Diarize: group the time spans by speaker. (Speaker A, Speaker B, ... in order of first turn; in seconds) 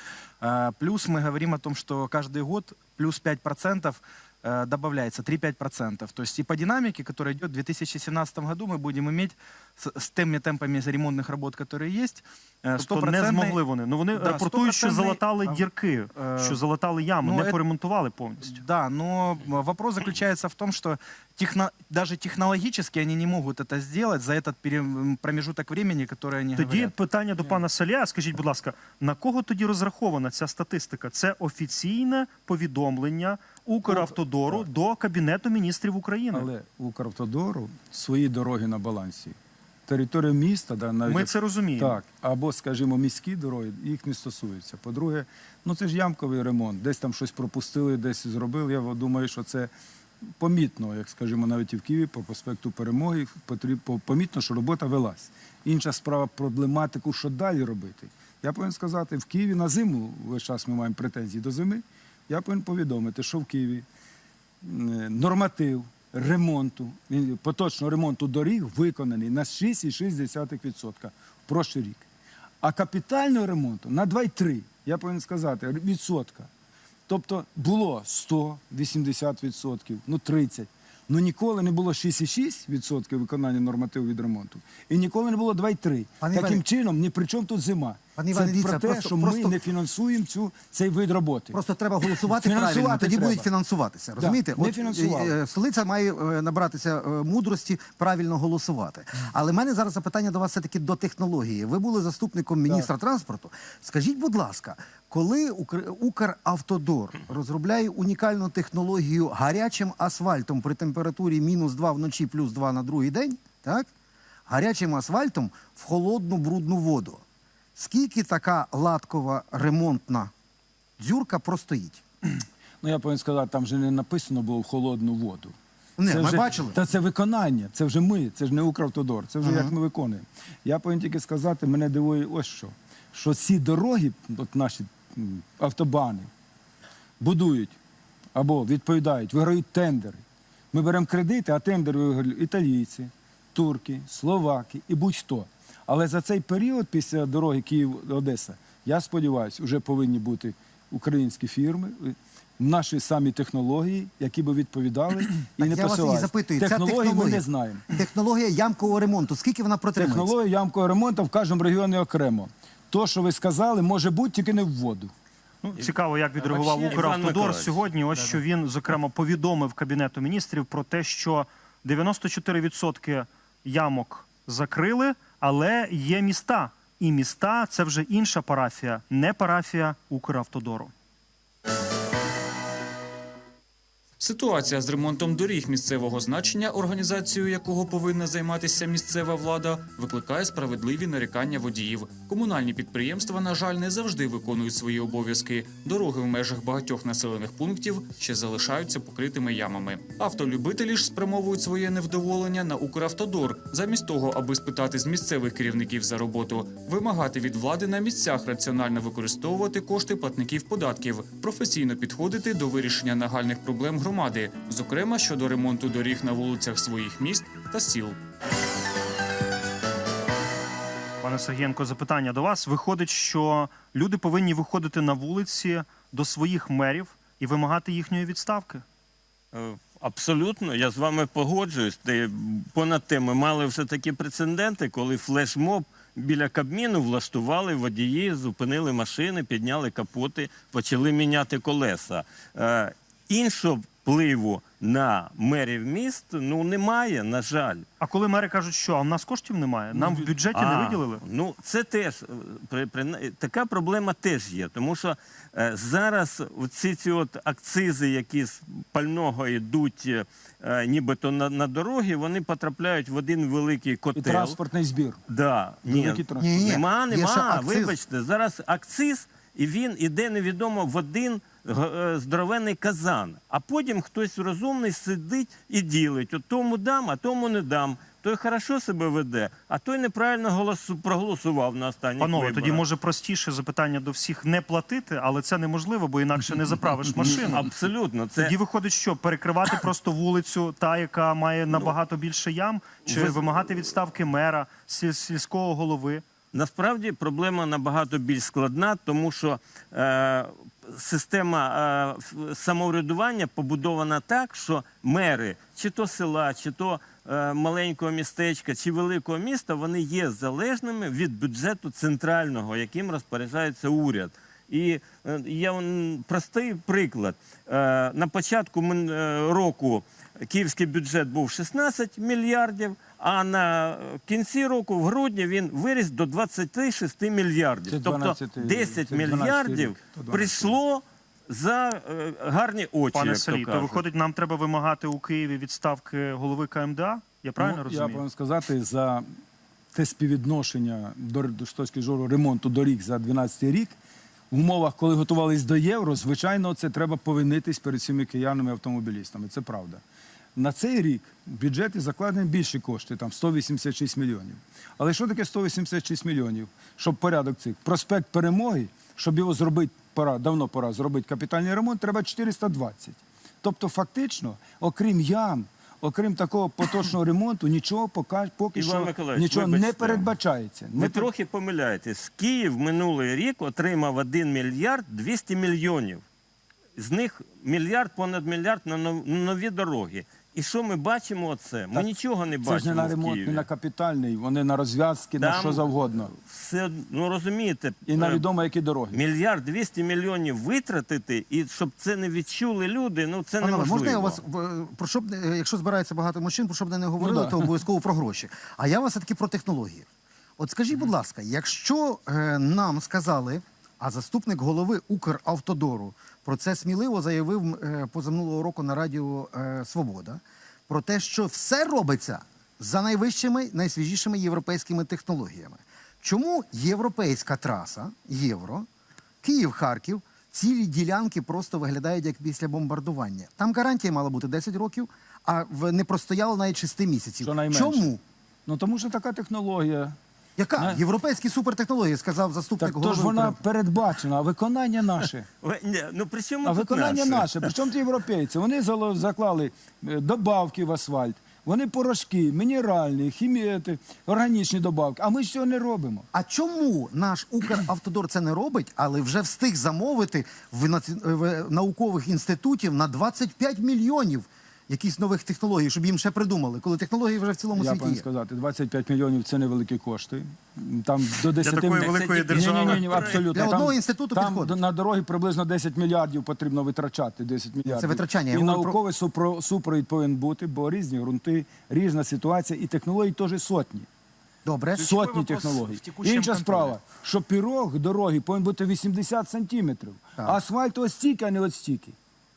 Speaker A: 0.4-16.6, 17.2-17.6, 18.4-26.9, 166.4-167.1, 475.0-476.9
Speaker B: 12.8-18.6, 26.5-36.5, 41.1-42.0, 165.6-180.9, 221.2-228.8, 248.0-251.2, 282.2-287.6, 288.4-296.2, 333.1-338.2, 461.6-463.4
Speaker C: 33.9-34.6, 36.3-39.4, 39.9-49.7, 50.4-63.8, 64.6-72.0, 72.6-76.5, 77.1-91.6, 92.3-93.5, 94.2-95.3, 122.8-125.5, 126.1-136.3, 137.2-137.8, 138.3-157.9, 159.9-165.1, 264.1-265.2, 265.9-266.7, 327.9-330.8, 337.6-339.3, 339.9-344.0, 344.5-350.0, 350.6-371.3, 382.6-386.3, 388.1-389.2, 397.2-397.7, 427.4-428.1, 428.6-430.2, 430.8-431.0, 432.8-435.5, 436.6-446.3, 457.7-474.1, 475.0-482.1
Speaker D: 86.2-86.6, 88.2-89.6, 91.5-113.9, 114.5-117.2, 117.8-120.3, 121.0-122.0, 126.0-126.8, 129.4-129.7, 155.6-160.3, 266.4-267.9, 393.6-400.1, 400.6-418.9, 419.4-428.2, 430.6-433.6, 446.3-458.2, 463.5-464.8, 467.8-469.0, 474.6-475.1
Speaker E: 166.9-167.8, 229.5-247.8, 249.9-264.6, 265.3-282.8, 287.2-288.5, 293.1-293.5, 296.5-334.0, 368.7-370.3, 371.0-376.2, 376.9-383.7, 385.4-388.4, 389.1-394.4, 435.6-437.5, 462.0-463.4
Speaker F: 184.2-218.2